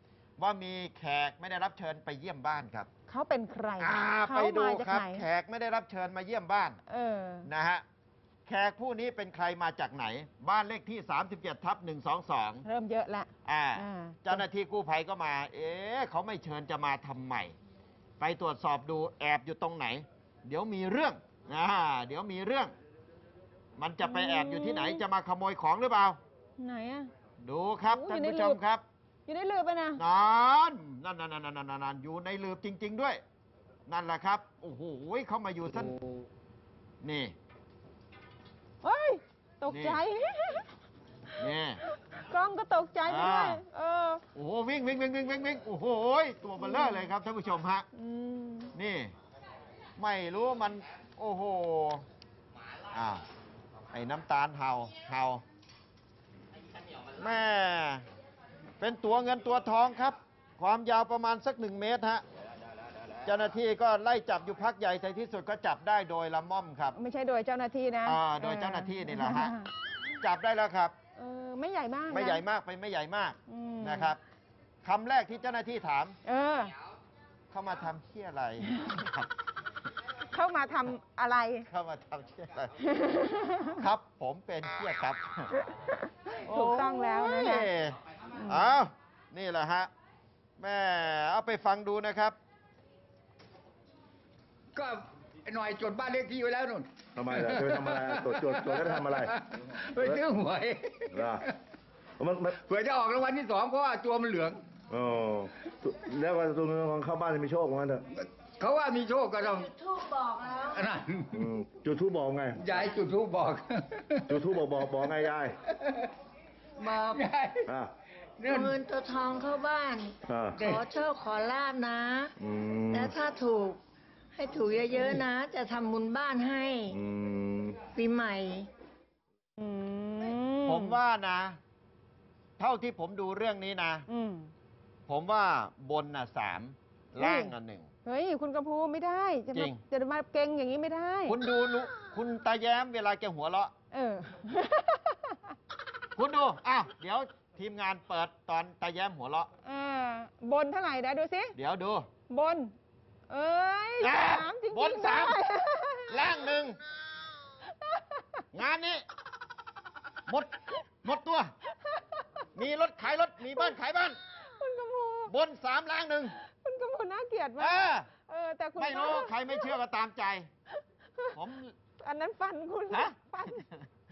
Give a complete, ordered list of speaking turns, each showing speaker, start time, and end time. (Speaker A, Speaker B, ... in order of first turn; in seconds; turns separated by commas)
Speaker A: 0.4-2.9, Speaker B: 3.1-5.2, Speaker A: 3.8-6.8, Speaker B: 6.9-7.5, Speaker A: 7.4-7.8, Speaker A: 8.4-12.7, Speaker B: 12.7-14.4, Speaker A: 13.4-17.6, Speaker A: 18.2-22.7, Speaker A: 23.8-26.2, Speaker B: 24.0-25.0, Speaker B: 26.6-27.1, Speaker A: 27.4-28.8, Speaker B: 27.9-28.6, Speaker B: 29.3-30.0, Speaker A: 30.0-33.2, Speaker A: 33.9-36.0, Speaker A: 37.0-37.4, Speaker B: 38.8-40.6, Speaker A: 39.7-40.0, Speaker A: 41.4-41.8, Speaker B: 42.1-44.2, Speaker A: 43.1-43.6, Speaker A: 44.3-47.9, Speaker B: 46.6-47.1, Speaker B: 47.9-48.7, Speaker A: 48.7-49.1, Speaker A: 50.0-52.0, Speaker A: 52.9-53.2, Speaker A: 53.9-55.4, Speaker A: 57.2-58.0, Speaker A: 58.8-62.2, Speaker A: 63.2-67.0, Speaker B: 67.0-69.7, Speaker A: 68.0-69.5, Speaker A: 70.2-70.9, Speaker B: 71.2-72.4, Speaker A: 72.1-74.2, Speaker B: 73.5-74.2, Speaker A: 74.8-76.2, Speaker B: 76.2-76.7, Speaker A: 77.5-79.3, Speaker B: 80.3-81.7, Speaker A: 81.7-82.7, Speaker B: 82.8-83.8, Speaker A: 83.8-85.6, Speaker B: 86.3-87.7, Speaker A: 86.5-89.9, Speaker B: 88.3-88.7, Speaker A: 90.6-92.3, Speaker C: 94.7-101.5, Speaker D: 97.2-99.3, Speaker D: 100.0-100.2, Speaker D: 101.1-101.4, Speaker D: 102.2-102.6, Speaker C: 102.5-104.6, Speaker D: 104.9-108.0, Speaker C: 108.2-109.7, Speaker E: 109.4-110.9, Speaker C: 110.7-111.5, Speaker D: 111.3-112.8, Speaker C: 112.5-114.4, Speaker D: 114.3-115.5, Speaker E: 116.8-117.3, Speaker C: 117.1-117.7, Speaker D: 117.7-117.9, Speaker C: 118.4-118.8, Speaker E: 118.5-122.3, Speaker D: 120.3-120.6, Speaker C: 120.5-120.8, Speaker D: 122.4-123.2, Speaker E: 122.9-123.8, Speaker E: 124.3-127.0, Speaker D: 126.9-127.8, Speaker E: 127.9-128.7, Speaker B: 129.6-131.0, Speaker A: 130.6-131.6, Speaker A: 132.6-134.1, Speaker B: 134.1-134.5, Speaker A: 135.1-137.9, Speaker B: 137.2-137.5, Speaker B: 138.0-141.3, Speaker A: 139.5-139.8, Speaker A: 141.3-143.7, Speaker B: 143.9-145.5, Speaker A: 146.2-149.5, Speaker B: 149.6-151.5, Speaker A: 151.5-152.1, Speaker B: 152.3-152.7, Speaker B: 153.3-156.5, Speaker A: 154.0-155.4, Speaker A: 156.1-156.8, Speaker B: 157.8-158.4, Speaker A: 158.5-159.0, Speaker A: 160.3-161.5, Speaker A: 162.6-164.2, Speaker B: 164.4-165.3, Speaker A: 165.3-166.4, Speaker B: 166.4-169.7, Speaker A: 167.6-168.1, Speaker A: 168.8-170.5, Speaker A: 171.3-171.7, Speaker B: 172.0-173.7, Speaker A: 172.9-173.7